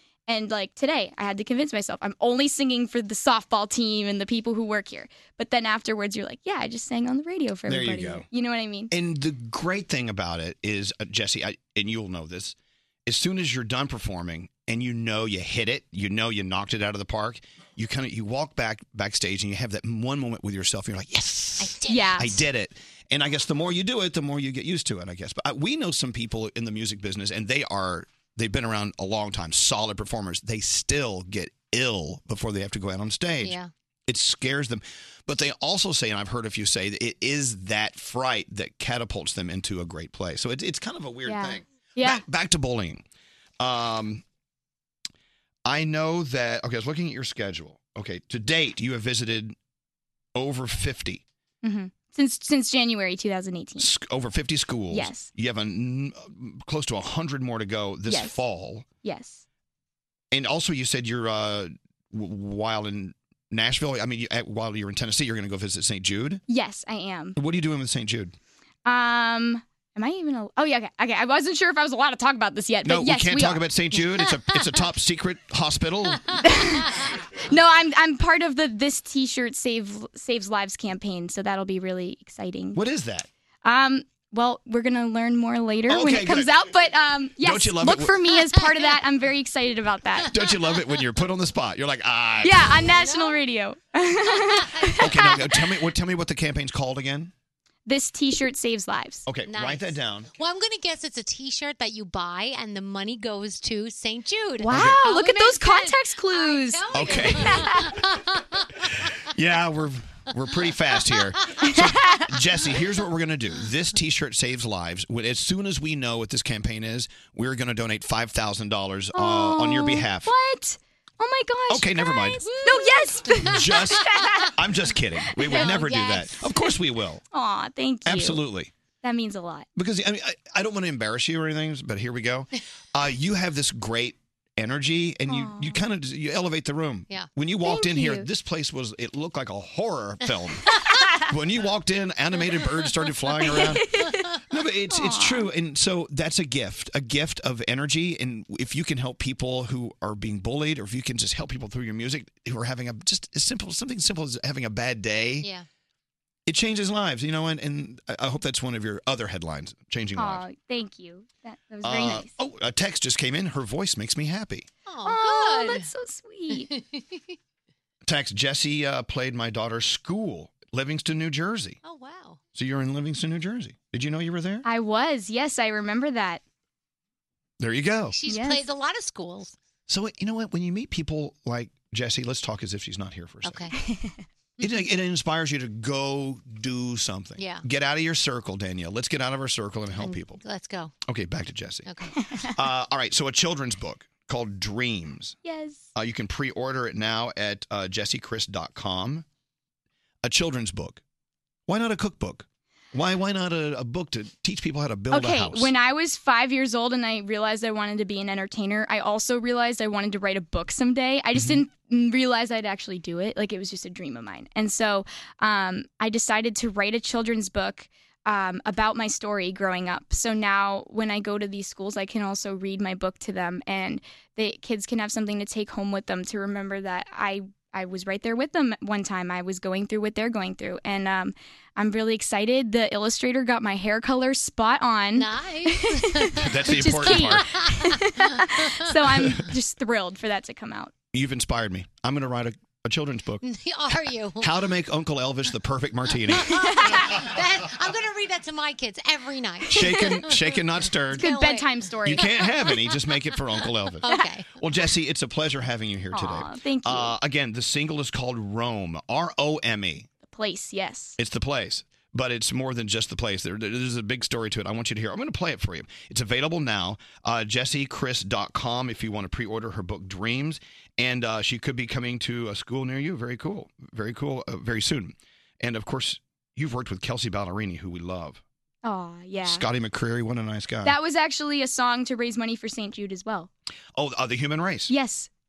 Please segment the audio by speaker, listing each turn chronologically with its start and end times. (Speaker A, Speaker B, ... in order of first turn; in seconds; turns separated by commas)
Speaker A: 0.3-8.9, Speaker B: 7.7-8.2, Speaker B: 8.9-43.0, Speaker C: 21.6-22.4, Speaker A: 21.9-22.3, Speaker C: 33.4-33.7, Speaker A: 41.2-42.2, Speaker B: 43.6-44.2, Speaker B: 45.6-49.5, Speaker B: 50.3-51.2, Speaker A: 51.6-53.9, Speaker B: 53.8-58.9, Speaker A: 54.9-55.3, Speaker A: 58.1-58.4, Speaker A: 59.0-59.4, Speaker B: 60.3-66.4, Speaker A: 66.5-67.3, Speaker B: 67.3-68.3, Speaker A: 68.8-73.7, Speaker B: 72.8-76.4, Speaker A: 76.4-76.9, Speaker A: 77.5-82.8, Speaker B: 82.7-83.3, Speaker A: 83.6-90.3, Speaker B: 85.9-86.5, Speaker B: 87.4-88.2, Speaker B: 90.3-92.7, Speaker A: 92.4-95.6, Speaker C: 92.8-93.4, Speaker C: 94.2-95.0, Speaker B: 95.0-97.3, Speaker A: 97.9-99.3, Speaker B: 99.2-100.3, Speaker C: 99.5-108.7, Speaker A: 104.6-107.9, Speaker B: 104.6-105.0, Speaker B: 106.9-107.9, Speaker B: 109.3-120.3, Speaker A: 111.7-112.2, Speaker A: 119.1-124.5, Speaker B: 121.7-122.5, Speaker C: 122.4-123.7, Speaker B: 123.3-127.2, Speaker A: 125.4-125.8, Speaker C: 125.4-126.5, Speaker A: 127.3-128.4, Speaker B: 128.0-128.7, Speaker A: 129.0-129.7, Speaker B: 129.8-140.7, Speaker A: 135.3-135.8, Speaker A: 137.6-138.3, Speaker B: 141.2-155.5, Speaker A: 143.4-144.0, Speaker A: 144.9-145.5, Speaker B: 156.4-160.4, Speaker A: 160.1-162.3, Speaker B: 161.8-164.7, Speaker C: 164.9-165.9, Speaker A: 165.0-166.7, Speaker C: 166.6-167.3, Speaker B: 168.1-171.8, Speaker C: 171.8-172.4, Speaker B: 172.5-174.6, Speaker A: 174.6-176.4, Speaker B: 177.6-178.2, Speaker C: 178.1-179.5, Speaker A: 178.3-178.7, Speaker B: 179.9-183.7, Speaker C: 183.4-183.8, Speaker A: 183.8-184.2, Speaker B: 184.6-190.4, Speaker C: 187.4-187.6, Speaker C: 190.0-190.9, Speaker B: 191.0-191.9, Speaker C: 191.8-192.1, Speaker B: 192.5-195.3, Speaker A: 195.4-195.9, Speaker B: 195.9-199.2, Speaker B: 200.2-201.0, Speaker B: 201.7-205.7, Speaker A: 205.1-240.9, Speaker B: 211.3-211.6, Speaker C: 235.1-238.3, Speaker B: 236.3-237.6, Speaker B: 239.0-239.4, Speaker B: 241.1-243.4, Speaker C: 243.4-244.5, Speaker B: 244.4-246.6, Speaker C: 246.4-250.5, Speaker A: 246.6-246.9, Speaker B: 249.7-251.3, Speaker A: 251.1-252.4, Speaker C: 251.2-252.8, Speaker B: 252.0-254.1, Speaker C: 254.0-254.5, Speaker B: 254.6-260.1, Speaker A: 256.1-257.2, Speaker A: 260.2-261.2, Speaker B: 261.2-278.4, Speaker A: 278.8-279.6, Speaker B: 279.4-280.9, Speaker A: 280.8-283.5, Speaker B: 283.9-284.9, Speaker A: 284.9-285.3